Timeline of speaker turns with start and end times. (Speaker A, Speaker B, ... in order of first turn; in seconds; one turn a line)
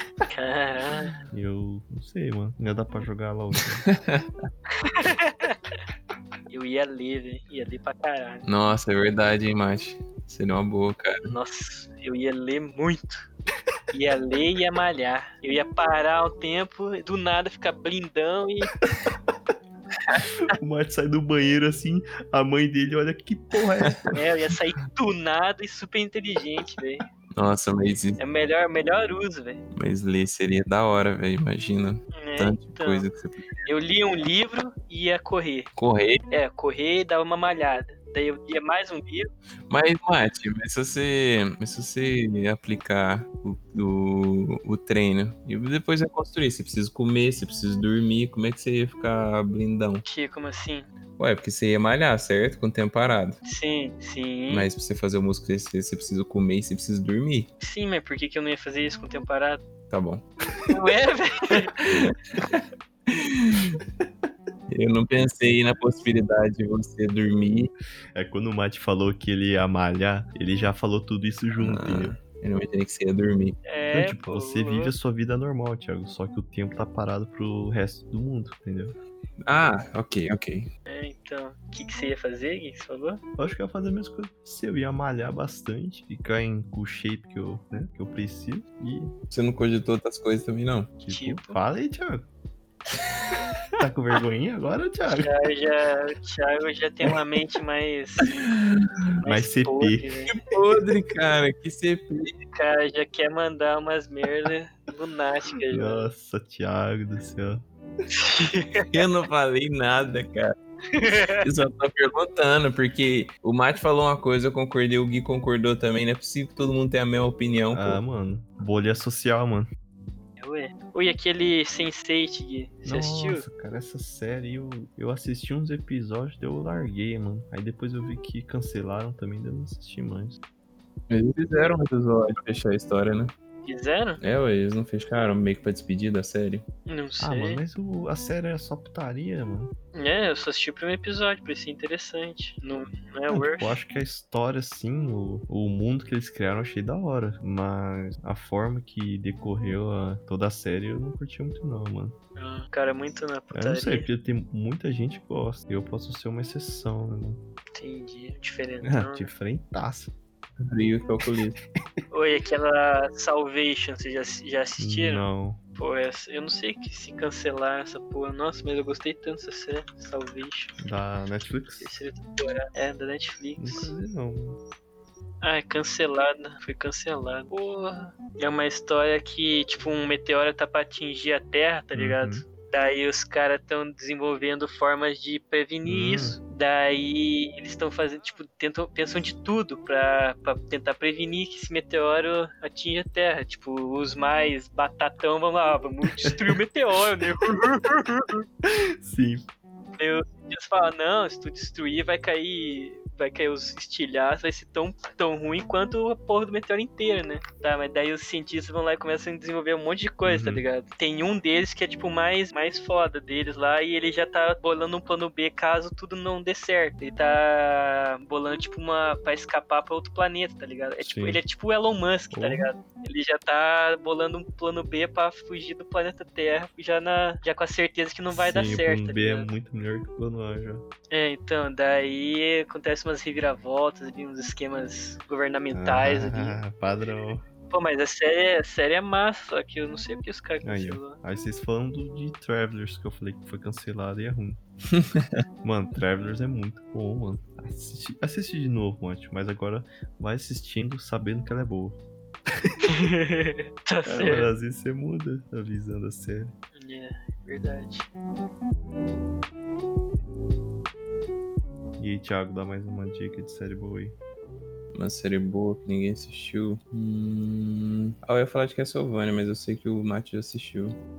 Speaker A: 0.3-1.1
Speaker B: 1.3-3.9
Speaker C: 3.8-4.3
Speaker A: 4.8-5.6
Speaker A: 6.5-8.4
Speaker C: 8.4-11.3
Speaker A: 11.3-13.3
Speaker A: 13.9-18.7
Speaker B: 20.5-24.1
Speaker C: 23.8-24.1
Speaker A: 24.1-27.0
Speaker C: 27.4-28.2
Speaker A: 28.2-29.6
Speaker C: 29.8-33.7
Speaker A: 32.1-33.1
Speaker A: 33.7-35.7
Speaker C: 35.8-36.2
Speaker A: 36.3-39.3
Speaker C: 39.7-50.0
Speaker A: 50.0-50.9
Speaker C: 51.2-53.4
Speaker A: 53.4-54.7
Speaker C: 54.5-57.5
Speaker A: 57.6-59.6
Speaker C: 59.9-60.2
Speaker A: 60.7-61.7
Speaker C: 61.8-63.8
Speaker C: 64.7-67.7
Speaker B: 68.1-72.1
Speaker C: 71.6-73.6
Speaker A: 73.7-74.9
Speaker B: 73.9-78.9
Speaker C: 79.5-80.7
Speaker A: 80.9-83.2
Speaker B: 83.4-89.1
Speaker C: 89.3-90.9
Speaker B: 91.0-92.3
Speaker A: 91.1-91.6
Speaker B: 93.8-95.3
Speaker A: 95.2-98.3
Speaker C: 98.3-98.8
Speaker A: 99.2-100.4
Speaker B: 99.3-100.1
Speaker C: 100.3-102.4
Speaker A: 102.5-106.1
Speaker B: 105.7-107.6
Speaker A: 108.1-108.9
Speaker C: 108.9-110.5
Speaker A: 110.9-111.4
Speaker C: 111.4-118.0
Speaker B: 117.7-119.7
Speaker A: 120.4-123.5
Speaker B: 122.8-130.4
Speaker C: 131.1-133.3
Speaker A: 133.7-134.2
Speaker C: 134.2-136.7
Speaker A: 136.9-137.6
Speaker B: 137.2-139.7
Speaker A: 139.9-143.8
Speaker B: 143.3-152.2
Speaker A: 152.4-154.1
Speaker B: 153.5-157.4
Speaker A: 157.8-159.3
Speaker B: 158.8-160.1
Speaker C: 160.6-161.6
Speaker A: 162.1-170.8
Speaker B: 164.8-165.6
Speaker B: 170.8-171.9
Speaker A: 171.8-173.9
Speaker B: 173.6-174.6
Speaker A: 175.4-198.5
Speaker B: 181.9-182.4
Speaker B: 185.8-186.4
Speaker B: 198.6-199.5
Speaker A: 200.0-229.5
Speaker B: 210.3-210.6
Speaker B: 221.0-221.4
Speaker B: 222.3-222.7
Speaker B: 228.3-230.8
Speaker A: 231.1-236.6
Speaker B: 235.7-237.4
Speaker A: 237.7-241.2
Speaker B: 240.6-244.6
Speaker C: 244.9-245.2
Speaker B: 245.6-252.0
Speaker A: 252.9-254.5
Speaker B: 254.1-256.5
Speaker A: 256.8-258.1
Speaker B: 262.0-264.2
Speaker C: 264.9-271.0